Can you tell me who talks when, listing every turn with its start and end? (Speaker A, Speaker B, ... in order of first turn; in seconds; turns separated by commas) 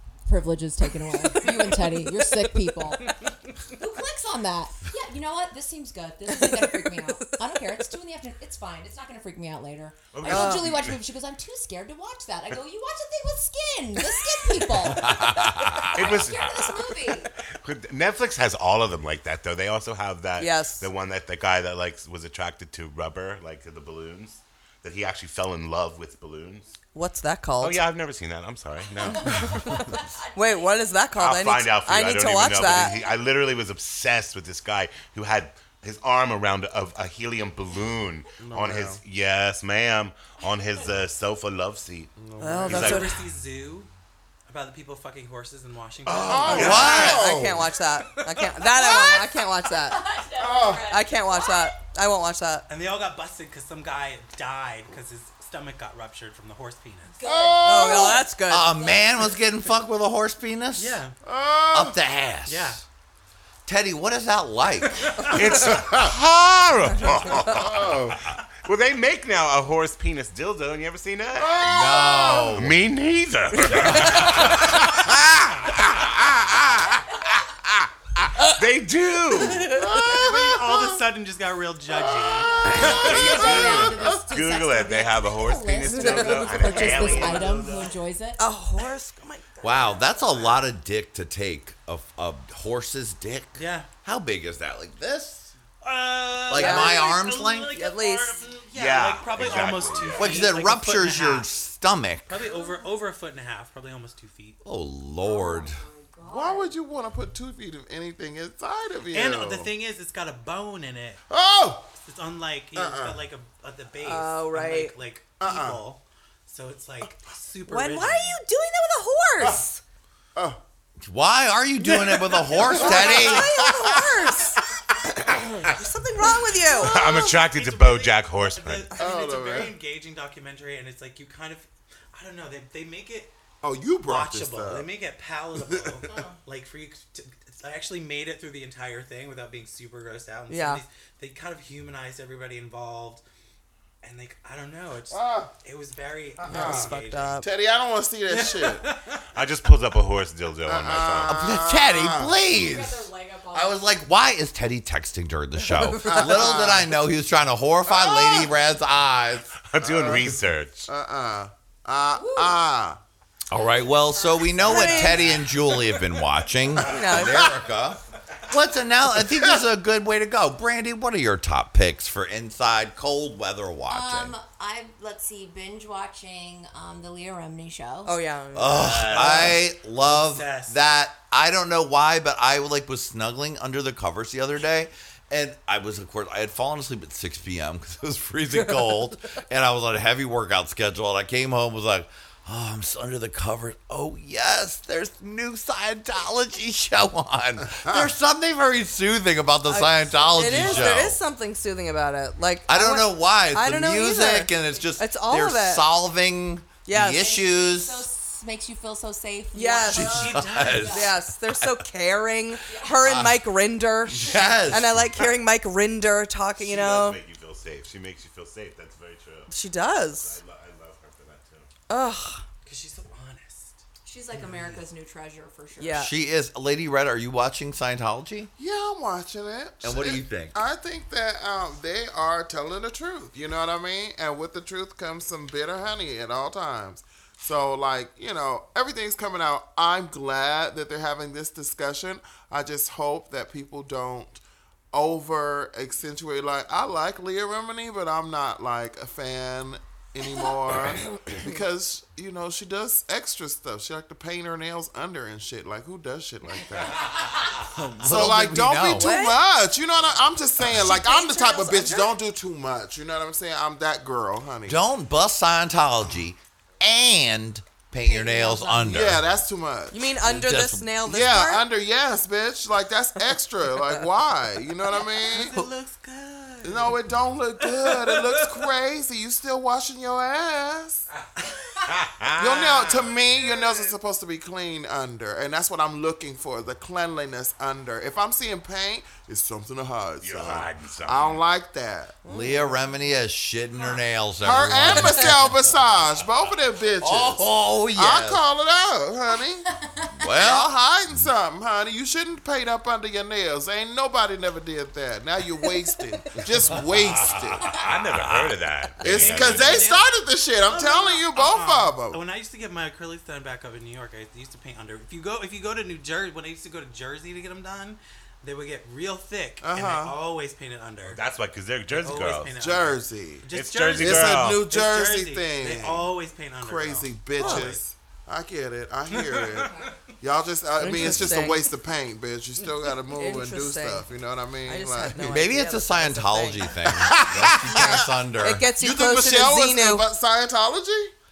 Speaker A: 0.3-3.1, Speaker A: 3.7-17.3, Speaker B: 6.3-7.4, Speaker C: 10.1-11.0, Speaker B: 10.2-10.8, Speaker D: 15.0-16.2, Speaker C: 15.9-16.8, Speaker C: 17.6-26.7, Speaker B: 20.4-20.9, Speaker B: 26.9-27.8, Speaker C: 27.6-29.8, Speaker A: 29.1-30.7, Speaker B: 29.4-29.8, Speaker B: 30.4-32.9, Speaker C: 31.1-42.1, Speaker E: 38.4-39.0, Speaker E: 42.2-43.0, Speaker B: 42.4-43.2, Speaker C: 42.7-43.1, Speaker F: 42.7-43.9, Speaker F: 44.5-47.0, Speaker C: 46.0-47.2, Speaker E: 46.2-47.7, Speaker B: 46.5-50.1, Speaker D: 46.6-47.2, Speaker F: 48.1-48.8, Speaker A: 48.8-51.7, Speaker E: 50.4-50.9, Speaker B: 50.8-52.6, Speaker F: 52.7-57.2, Speaker A: 57.1-59.3, Speaker E: 57.2-58.3, Speaker B: 57.6-58.7, Speaker D: 58.5-61.0, Speaker F: 60.8-61.1, Speaker E: 61.2-62.0, Speaker D: 61.7-62.8, Speaker F: 62.5-62.8, Speaker D: 63.6-65.1, Speaker C: 65.3-71.6, Speaker E: 65.6-66.1, Speaker E: 67.5-68.2, Speaker E: 71.4-72.6, Speaker D: 71.6-72.8, Speaker C: 72.5-75.1, Speaker C: 76.1-76.9, Speaker C: 78.4-79.7, Speaker E: 79.3-81.1, Speaker B: 79.4-79.9, Speaker F: 80.0-83.4, Speaker E: 82.1-84.2, Speaker A: 82.3-88.4, Speaker C: 82.6-88.0, Speaker B: 86.0-87.1, Speaker E: 87.4-87.7, Speaker B: 88.4-89.7, Speaker D: 89.6-95.5, Speaker F: 93.5-93.9, Speaker F: 95.8-101.5, Speaker D: 96.5-97.7, Speaker B: 96.5-97.1, Speaker B: 97.7-98.3, Speaker C: 98.7-100.5, Speaker D: 100.2-102.4, Speaker F: 102.2-104.6, Speaker A: 102.5-102.9, Speaker D: 104.6-105.8, Speaker A: 105.2-106.7, Speaker E: 106.2-109.7, Speaker F: 109.1-111.2, Speaker E: 111.3-111.9, Speaker F: 112.0-118.4, Speaker E: 112.7-113.2, Speaker B: 114.0-114.9, Speaker E: 115.4-115.8, Speaker B: 117.7-119.8, Speaker D: 121.0-123.6, Speaker F: 121.8-122.8, Speaker E: 122.7-124.4, Speaker B: 122.8-124.6, Speaker B: 125.5-127.3, Speaker F: 126.4-133.3, Speaker C: 126.7-129.0, Speaker E: 129.0-129.8, Speaker E: 133.6-134.9, Speaker F: 134.0-143.2, Speaker E: 135.5-136.1, Speaker A: 136.0-136.4, Speaker B: 140.5-140.8, Speaker F: 144.0-147.4, Speaker E: 145.1-145.5, Speaker E: 146.4-148.9, Speaker B: 146.4-147.4, Speaker F: 148.3-149.2, Speaker C: 149.3-151.4, Speaker E: 150.6-152.3, Speaker D: 151.2-159.5, Speaker A: 152.4-153.9, Speaker E: 156.0-157.0, Speaker E: 157.9-158.5, Speaker C: 159.6-160.9, Speaker E: 159.8-163.0, Speaker A: 162.1-162.6, Speaker D: 163.5-174.3, Speaker A: 163.9-165.1, Speaker B: 164.6-165.3, Speaker B: 166.8-167.5, Speaker A: 173.9-178.2, Speaker B: 178.0-179.5, Speaker D: 178.5-201.2, Speaker C: 178.7-179.6, Speaker F: 179.0-180.8, Speaker E: 197.8-198.1, Speaker B: 199.7-205.8, Speaker F: 200.4-201.0, Speaker D: 202.7-208.1, Speaker B: 206.8-207.3, Speaker A: 207.1-211.1, Speaker B: 209.5-210.3, Speaker F: 209.9-211.2, Speaker D: 209.9-211.8, Speaker B: 210.8-217.2, Speaker A: 212.7-213.0, Speaker D: 213.0-213.4, Speaker D: 214.1-215.1, Speaker C: 216.6-219.5, Speaker B: 219.5-220.4, Speaker C: 220.1-221.7, Speaker B: 221.9-222.4, Speaker F: 222.6-224.8, Speaker A: 224.0-226.0, Speaker B: 225.8-226.1, Speaker D: 225.9-228.5, Speaker E: 228.6-257.4, Speaker D: 229.8-230.6, Speaker D: 257.8-259.2, Speaker E: 258.0-264.8, Speaker B: 258.9-259.4, Speaker A: 260.8-262.1, Speaker D: 264.6-269.2, Speaker A: 268.0-269.0, Speaker E: 268.9-270.1, Speaker B: 269.9-271.6, Speaker D: 270.2-271.0, Speaker E: 271.1-275.6, Speaker F: 274.9-277.1, Speaker E: 276.6-281.1, Speaker F: 277.6-278.6, Speaker C: 281.8-283.1, Speaker E: 282.4-292.2, Speaker C: 290.2-291.4, Speaker B: 292.2-292.8, Speaker D: 292.3-295.4, Speaker E: 294.4-299.7, Speaker B: 295.0-295.3, Speaker D: 297.0-298.4, Speaker A: 299.8-300.1, Speaker D: 300.2-300.7, Speaker E: 300.3-307.8, Speaker D: 306.9-308.6, Speaker C: 307.7-309.8, Speaker E: 309.0-312.2, Speaker F: 309.1-310.1, Speaker F: 310.6-321.2, Speaker E: 319.6-320.2, Speaker C: 321.0-322.5, Speaker F: 321.9-327.8, Speaker E: 322.6-335.4, Speaker C: 323.5-324.7, Speaker B: 327.4-327.7, Speaker F: 329.1-329.9, Speaker A: 329.6-329.9, Speaker B: 330.8-331.6, Speaker B: 333.1-334.1, Speaker B: 334.6-336.7, Speaker D: 335.3-338.7, Speaker E: 336.8-341.1, Speaker B: 338.3-340.1